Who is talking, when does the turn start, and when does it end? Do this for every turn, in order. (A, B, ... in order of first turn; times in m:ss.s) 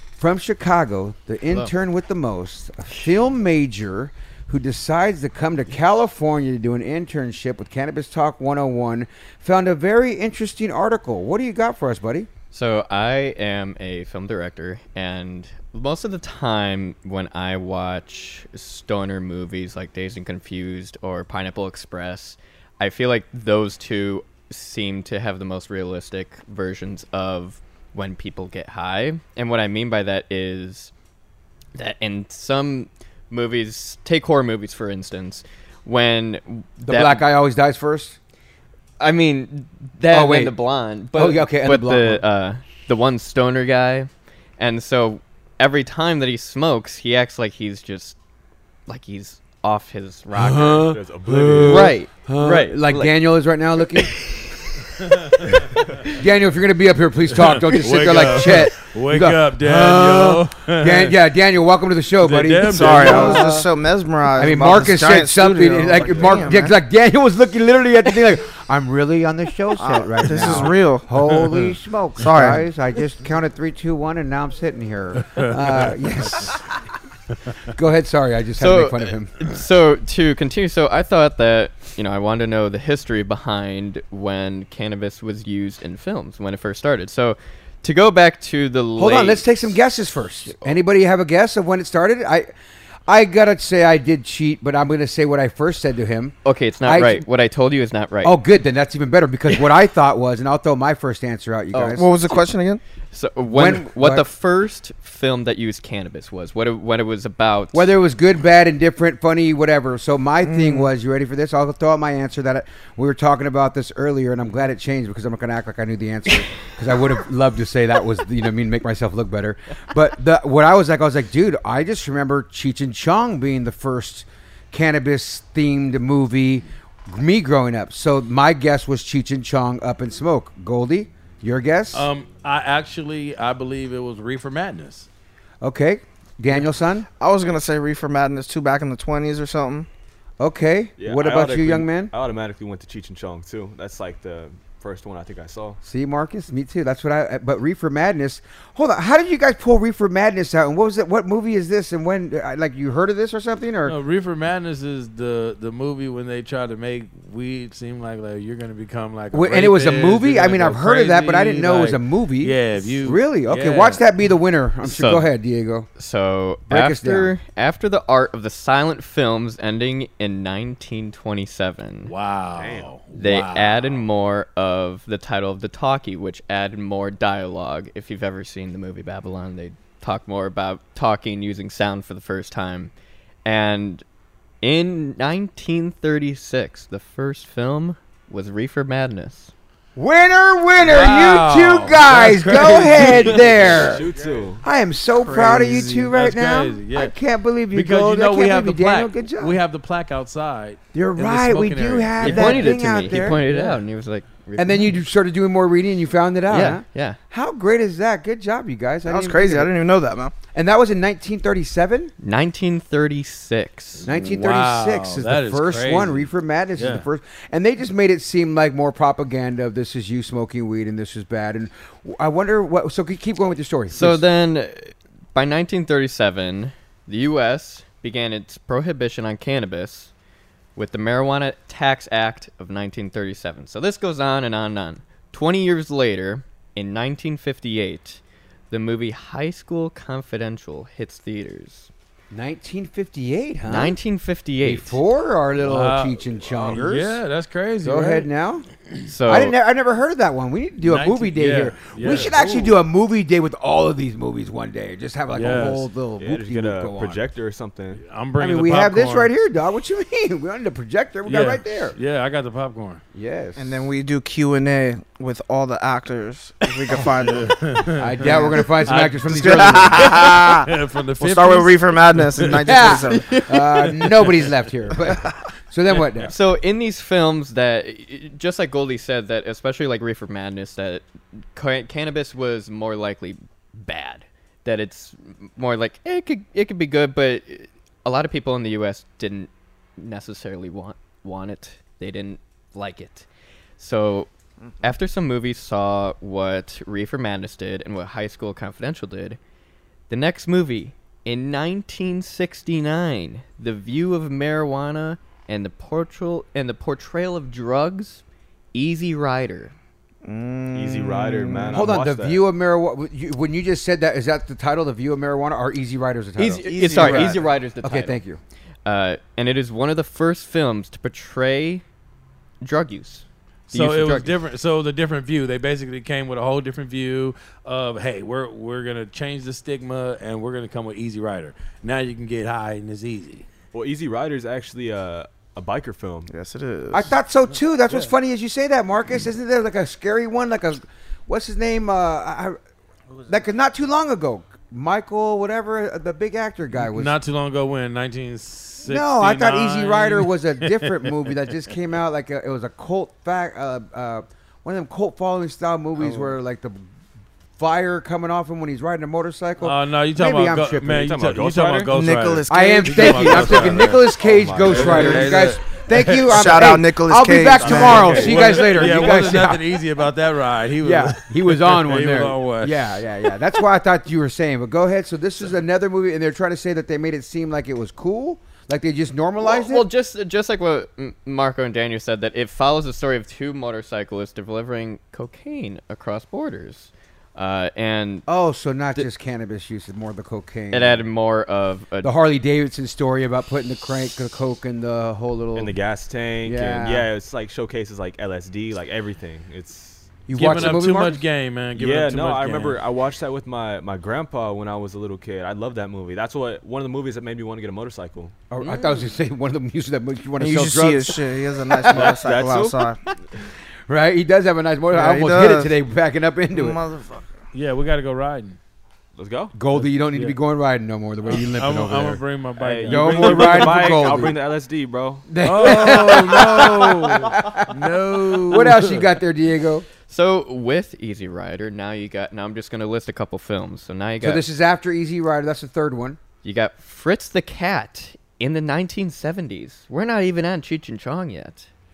0:00.2-0:12.3 A
0:12.5-0:30.9 B
0:31.8-0:37.3 B
0:36.8-0:38.2 A
0:39.0-0:48.2 B
0:40.1-0:40.6 A
0:41.1-0:42.2 A
0:48.9-0:50.9 B
0:50.3-0:52.6 C
0:50.9-0:51.9 D
0:51.5-0:54.2 A
0:51.6-0:53.1 B
0:55.0-0:55.8 C
0:56.1-1:03.7 A
0:57.3-1:01.2 C
1:02.2-1:03.6 C
1:02.7-1:06.8 E
1:04.4-1:16.8 A
1:06.0-1:06.5 D
1:09.8-1:12.6 E
1:15.4-1:15.9 C
1:17.7-1:19.4 A
1:18.6-1:29.5 B
1:29.0-1:32.5 A
1:33.1-1:37.2 A
1:36.4-1:38.4 B
1:38.2-1:42.1 A
1:41.7-1:42.5 B
1:42.0-1:42.8 E
1:43.1-1:47.9 B
1:43.5-1:44.3 A
1:47.7-2:12.1 A
1:50.4-1:50.9 E
2:11.9-2:15.1 C
2:15.6-2:17.1 A
2:17.2-2:19.9 E
2:20.4-2:22.1 A
2:21.0-2:25.8 D
2:25.8-2:34.0 A
2:33.8-2:44.0 C
2:39.3-2:45.9 A
2:44.8-2:45.3 B
2:46.0-2:52.1 B
2:46.7-2:47.3 A
2:52.1-2:54.1 C
2:52.6-2:52.9 D
2:53.2-3:02.9 B
3:03.4-3:04.0 B
3:04.6-3:09.5 B
3:10.0-3:14.1 A
3:10.8-3:14.5 C
3:13.2-3:14.6 D
3:14.6-3:19.6 A
3:15.2-3:16.1 E
3:16.1-3:17.2 C
3:17.7-3:23.8 C
3:20.9-3:23.5 A
3:22.2-3:25.0 B
3:24.6-3:29.7 A
3:26.5-3:27.2 B
3:29.1-3:30.4 E
3:30.5-3:32.1 A
3:32.2-3:34.1 B
3:34.0-3:37.1 C
3:34.1-3:44.2 A
3:43.9-3:50.1 B
3:50.8-4:01.9 B
4:02.3-4:04.0 A
4:03.7-4:05.0 B
4:04.6-4:07.2 A
4:05.6-4:08.3 C
4:07.8-4:08.7 A
4:09.1-4:09.6 B
4:09.3-4:17.2 A
4:10.8-4:12.8 C
4:15.3-4:15.9 C
4:16.2-4:18.0 D
4:18.0-4:19.3 C
4:18.4-4:22.0 A
4:21.3-4:23.0 C
4:23.1-4:23.9 A
4:23.6-4:27.6 E
4:26.9-4:33.0 C
4:28.0-4:30.3 A
4:29.3-4:33.3 E
4:32.6-4:36.4 A
4:33.2-4:34.0 B
4:36.2-4:53.3 B
4:53.8-4:54.3 B
4:54.8-4:59.4 B
5:00.1-5:08.2 B
5:08.7-5:09.7 B
5:10.2-5:12.0 E
5:10.7-5:12.4 D
5:11.7-5:18.4 A
5:16.4-5:18.2 B
5:16.6-5:17.5 E
5:18.8-5:21.8 B
5:22.6-5:24.3 B
5:23.7-5:33.4 C
5:33.7-5:36.3 D
5:36.3-5:37.1 E
5:36.9-5:42.6 A
5:43.3-5:47.2 A
5:46.7-5:51.1 C
5:48.8-5:56.9 A
5:57.6-6:01.2 A
5:59.6-6:06.8 C
6:01.0-6:01.9 D
6:01.9-6:03.5 E
6:02.5-6:09.8 A
6:03.1-6:05.5 D
6:06.3-6:08.2 E
6:07.6-6:13.0 C
6:07.6-6:08.9 D
6:10.8-6:19.9 A
6:19.4-6:28.3 B
6:28.3-6:31.0 A
6:30.7-6:32.1 B
6:32.0-6:35.8 A
6:35.6-6:40.7 D
6:36.4-6:37.1 A
6:40.3-6:41.2 A
6:40.3-6:42.8 C
6:41.8-6:48.3 D
6:48.5-6:52.3 A
6:50.4-6:53.0 E
6:51.9-6:52.9 D
6:53.9-6:56.8 A
6:54.9-6:55.8 E
6:56.5-6:57.3 E
6:57.5-6:58.6 C
6:59.2-6:59.5 D
6:59.5-7:02.2 A
6:59.8-7:00.4 C
7:01.3-7:04.2 C
7:02.6-7:06.1 D
7:02.8-7:04.4 A
7:05.3-7:09.9 A
7:05.4-7:09.1 C
7:10.1-7:14.4 B
7:14.2-7:16.2 A
7:16.4-7:21.7 B